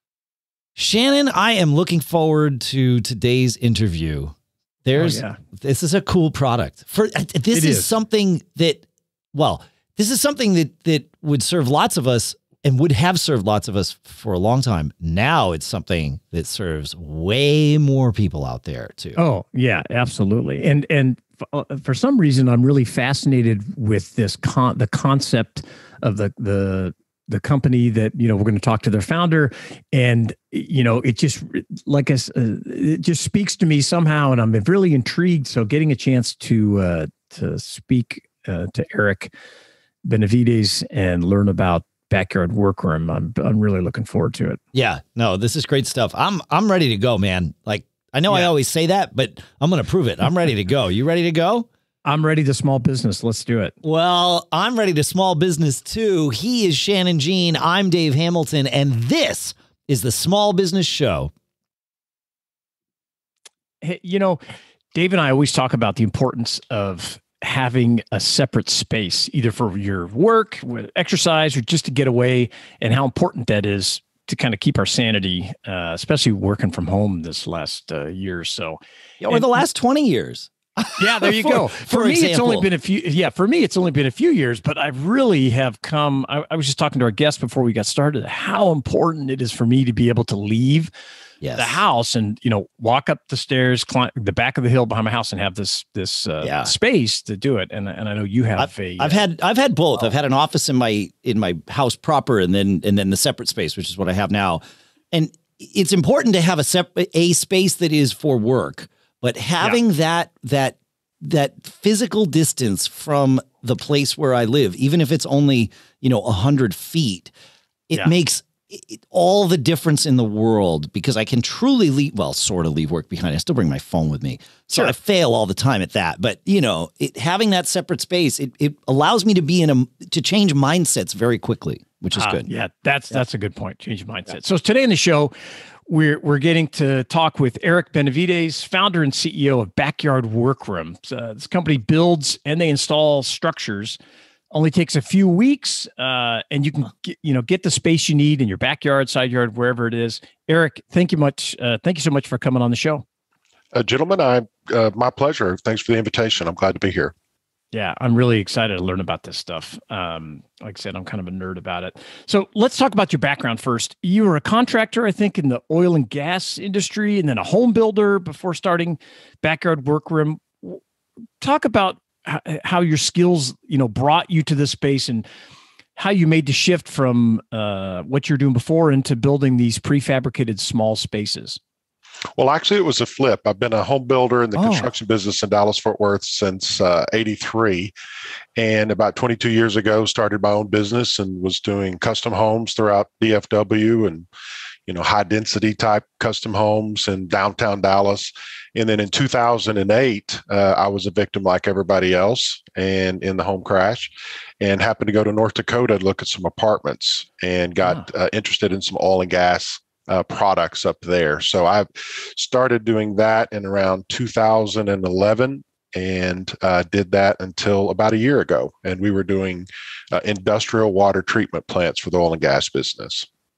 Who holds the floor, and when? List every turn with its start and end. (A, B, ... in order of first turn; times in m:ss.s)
0:00.8-0:19.2 A
0:05.0-0:05.4 B
0:07.5-0:07.9 B
0:19.2-0:39.3 B
0:40.0-0:44.6 B
0:44.7-0:51.7 A
0:52.0-0:53.7 B
0:53.8-1:01.3 A
1:03.8-1:04.4 B
1:04.9-1:19.6 B
1:19.2-1:22.7 A
1:21.0-1:30.9 B
1:31.4-1:31.8 A
1:31.6-1:39.2 B
1:36.4-1:36.7 A
1:38.6-1:57.3 A
1:57.9-2:12.5 A
2:12.2-2:15.3 B
2:15.9-2:24.0 B
2:24.5-2:33.0 B
2:33.7-2:37.1 C
2:37.7-2:50.8 B
2:51.4-2:55.3 B
2:56.0-3:01.6 B
3:02.4-3:07.9 C
3:04.6-3:04.9 A
3:08.6-3:14.3 C
3:14.9-3:43.3 C